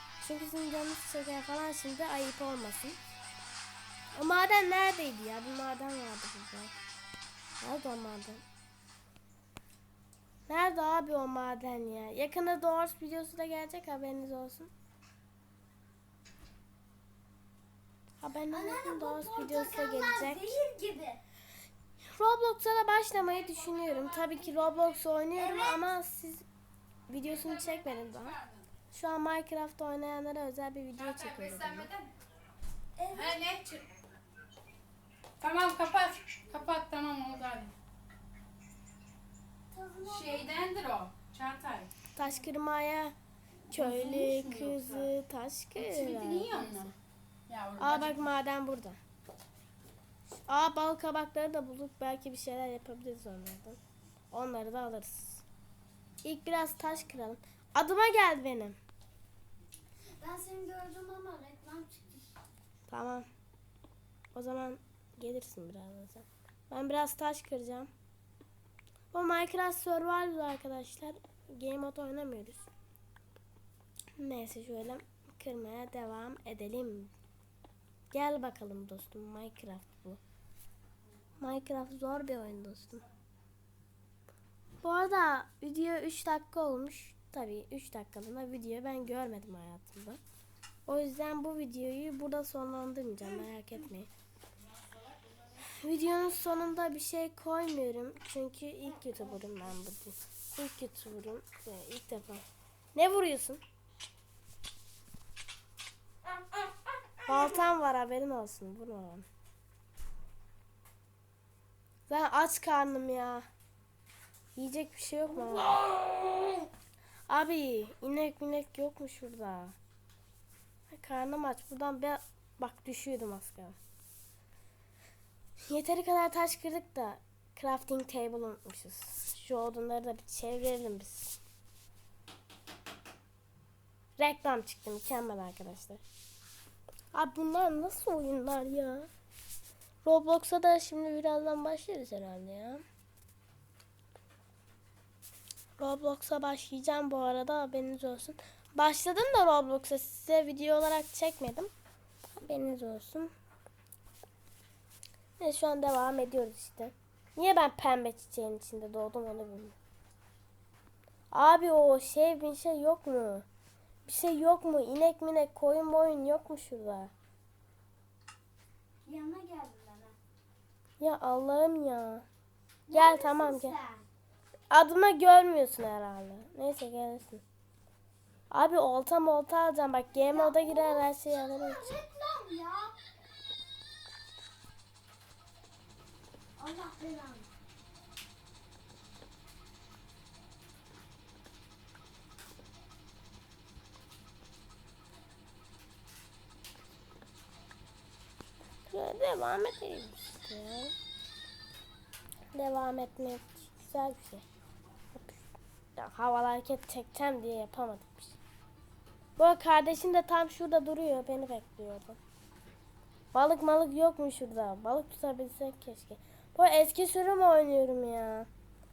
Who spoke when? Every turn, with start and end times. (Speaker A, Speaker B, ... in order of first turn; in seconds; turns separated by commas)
Speaker A: 0.2-3.0, Speaker A: 4.1-6.7, Speaker A: 7.6-8.4, Speaker A: 10.5-14.7, Speaker A: 18.2-20.5, Speaker B: 18.5-21.2, Speaker A: 22.0-26.4, Speaker C: 23.4-24.4, Speaker B: 25.3-25.9, Speaker A: 27.1-28.4, Speaker C: 27.6-28.6, Speaker A: 28.9-31.9, Speaker C: 31.0-32.1, Speaker B: 33.0-33.4, Speaker C: 33.1-33.9, Speaker C: 35.4-37.7, Speaker B: 39.7-40.6, Speaker C: 40.0-41.9, Speaker A: 42.1-43.1, Speaker A: 43.7-46.7, Speaker C: 43.7-45.1, Speaker C: 45.8-46.9, Speaker C: 47.5-48.1, Speaker A: 47.8-49.0, Speaker A: 50.5-53.8, Speaker A: 54.3-55.4, Speaker A: 56.2-58.8, Speaker B: 60.2-62.4, Speaker A: 62.9-63.3, Speaker A: 64.3-67.9, Speaker A: 69.1-72.7, Speaker A: 74.2-77.1, Speaker A: 78.1-80.2, Speaker A: 81.4-83.0, Speaker A: 84.8-90.2, Speaker A: 90.8-94.1, Speaker A: 95.8-103.6, Speaker A: 107.2-109.2, Speaker A: 112.1-113.5, Speaker A: 114.5-116.0, Speaker A: 117.3-119.8, Speaker A: 120.9-123.8, Speaker A: 125.6-131.4, Speaker A: 134.2-136.0, Speaker A: 137.1-139.1, Speaker A: 140.0-142.8, Speaker A: 145.8-151.7, Speaker A: 152.4-153.3, Speaker A: 155.4-159.7, Speaker A: 161.3-163.4, Speaker A: 164.1-167.1, Speaker B: 169.0-170.2, Speaker A: 171.0-172.2, Speaker B: 172.9-174.1, Speaker A: 172.9-173.8, Speaker A: 174.7-177.4, Speaker A: 178.5-182.0, Speaker B: 180.2-182.9, Speaker B: 186.6-187.5, Speaker A: 198.9-200.9, Speaker A: 202.5-204.4, Speaker A: 205.1-205.4, Speaker A: 205.9-208.4, Speaker A: 209.4-212.2, Speaker A: 213.3-218.5